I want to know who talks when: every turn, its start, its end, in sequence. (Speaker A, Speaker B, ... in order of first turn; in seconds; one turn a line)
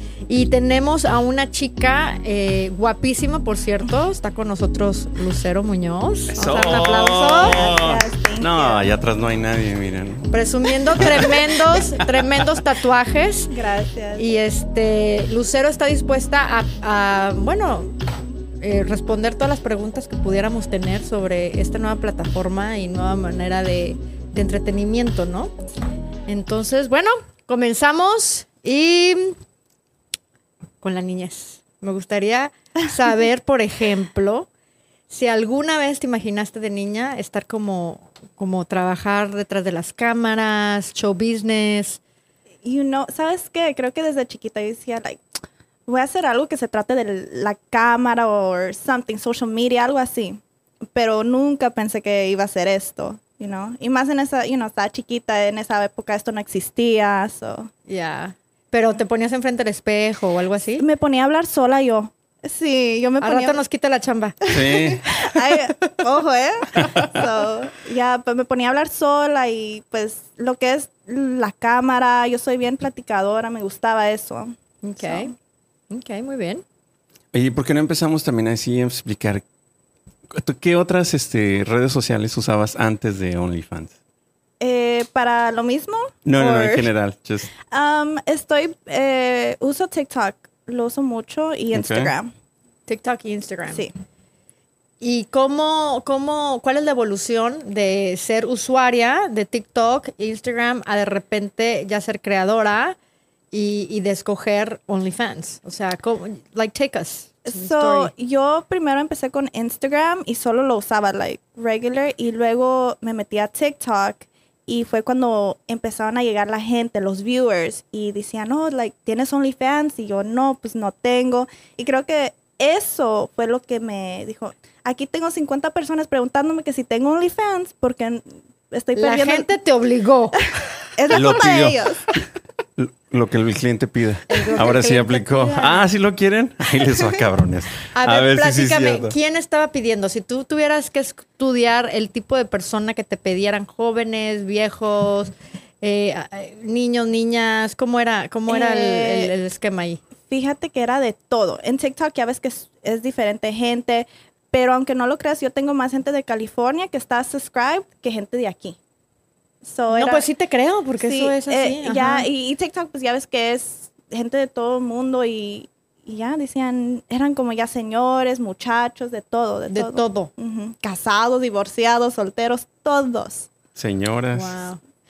Speaker A: 0.3-7.7
Speaker B: 6.3-10.3
Speaker C: 7.1-8.9
Speaker A: 10.3-13.5
Speaker B: 10.9-12.6
Speaker C: 13.5-14.2
Speaker A: 14.2-17.9
Speaker A: 18.6-25.5
Speaker A: 26.3-29.4
Speaker A: 30.8-34.5
Speaker A: 35.1-42.0
Speaker C: 42.6-45.2
Speaker C: 45.9-50.4
Speaker C: 50.9-57.7
Speaker A: 57.9-60.8
Speaker C: 60.8-63.6
Speaker A: 63.2-64.4
Speaker C: 64.5-75.3
Speaker B: 64.5-65.0
Speaker B: 66.8-67.2
Speaker A: 74.8-75.3
Speaker A: 75.9-76.6
Speaker B: 77.3-79.4
Speaker B: 80.3-83.9
Speaker C: 84.6-86.9
Speaker B: 86.2-87.5
Speaker C: 87.7-92.3
Speaker B: 91.7-92.1
Speaker A: 92.9-93.9
Speaker A: 95.0-103.0
Speaker A: 103.5-108.1
Speaker C: 107.5-129.5
Speaker A: 128.9-130.4
Speaker C: 131.0-132.1
Speaker B: 131.1-132.2
Speaker B: 132.8-139.1
Speaker A: 134.3-135.8
Speaker A: 137.9-150.0
Speaker C: 148.5-149.3
Speaker C: 150.3-158.8
Speaker C: 159.6-160.3
Speaker A: 159.9-162.3
Speaker C: 161.0-173.5
Speaker A: 169.7-170.3
Speaker B: 173.7-174.6
Speaker A: 174.3-174.8